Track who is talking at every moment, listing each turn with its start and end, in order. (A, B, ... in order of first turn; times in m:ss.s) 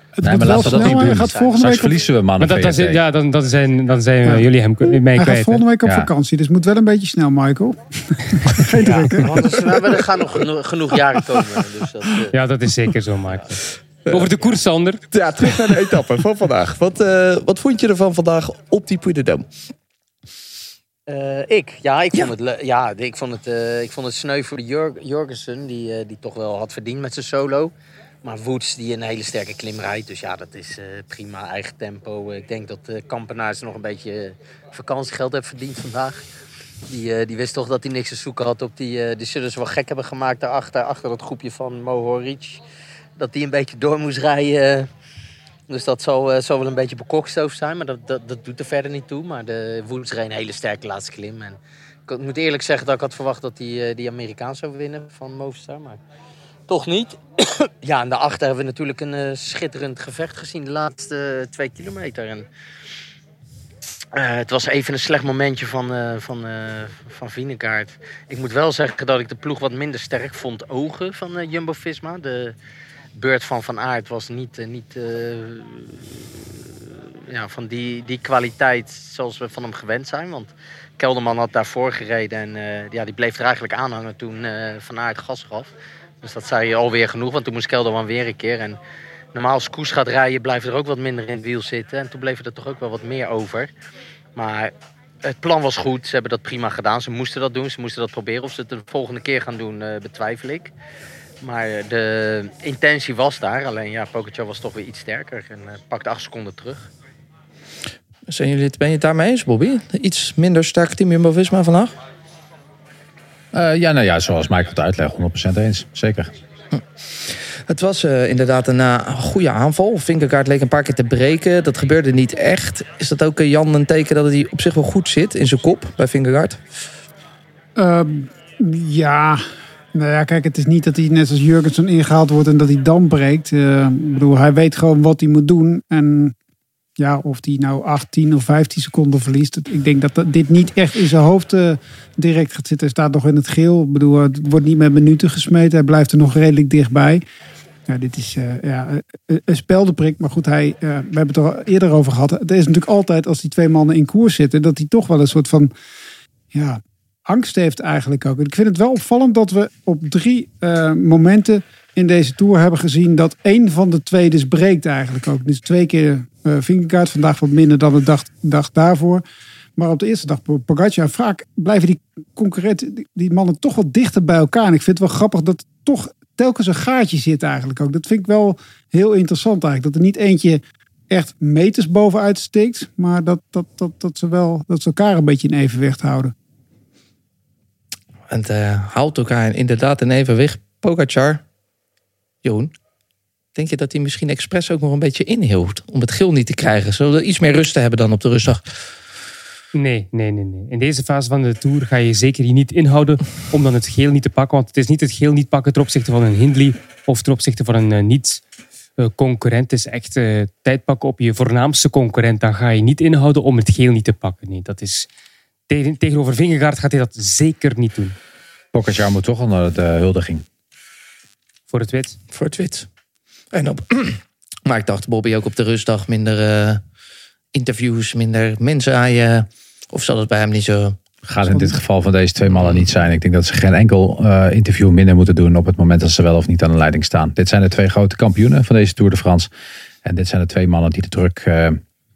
0:00.2-0:02.0 A
0:00.2-0:03.0 B
0:00.4-0:02.1 C
0:02.4-0:05.6 D
0:05.1-0:09.7 A
0:05.8-0:06.1 B
0:08.8-0:09.1 D
0:09.2-0:12.3 C
0:12.3-0:15.0 D
0:15.1-0:19.5 E
0:21.1-0:36.2 C
0:36.9-0:42.6 C
0:43.2-0:44.9 C
0:45.7-0:56.0 C
0:56.7-1:02.4 C
1:04.1-1:12.5 C
1:13.1-1:16.4 C
1:17.3-1:28.8 C
1:29.3-1:33.7 C
1:34.3-1:34.7 C
1:35.2-1:40.7 C
1:41.4-1:46.9 C
1:48.3-1:51.9 E
1:53.5-1:56.3 B
1:56.7-2:06.6 E
2:07.8-2:09.4 A
2:09.9-2:16.3 A
2:17.0-2:27.2 A
2:27.9-2:35.7 A
2:36.5-2:49.2 A
2:49.8-3:06.3 A
3:08.3-3:11.4 E
3:12.4-3:12.7 E
3:13.5-3:18.6 E
3:19.7-3:28.4 D
3:29.0-3:35.1 D
3:35.7-3:38.2 D
3:38.7-3:40.4 B
3:41.7-3:42.2 D
3:42.3-3:42.9 E
3:43.5-3:46.8 E
3:47.5-3:51.0 E
3:51.2-3:59.5 B
4:00.0-4:01.8 B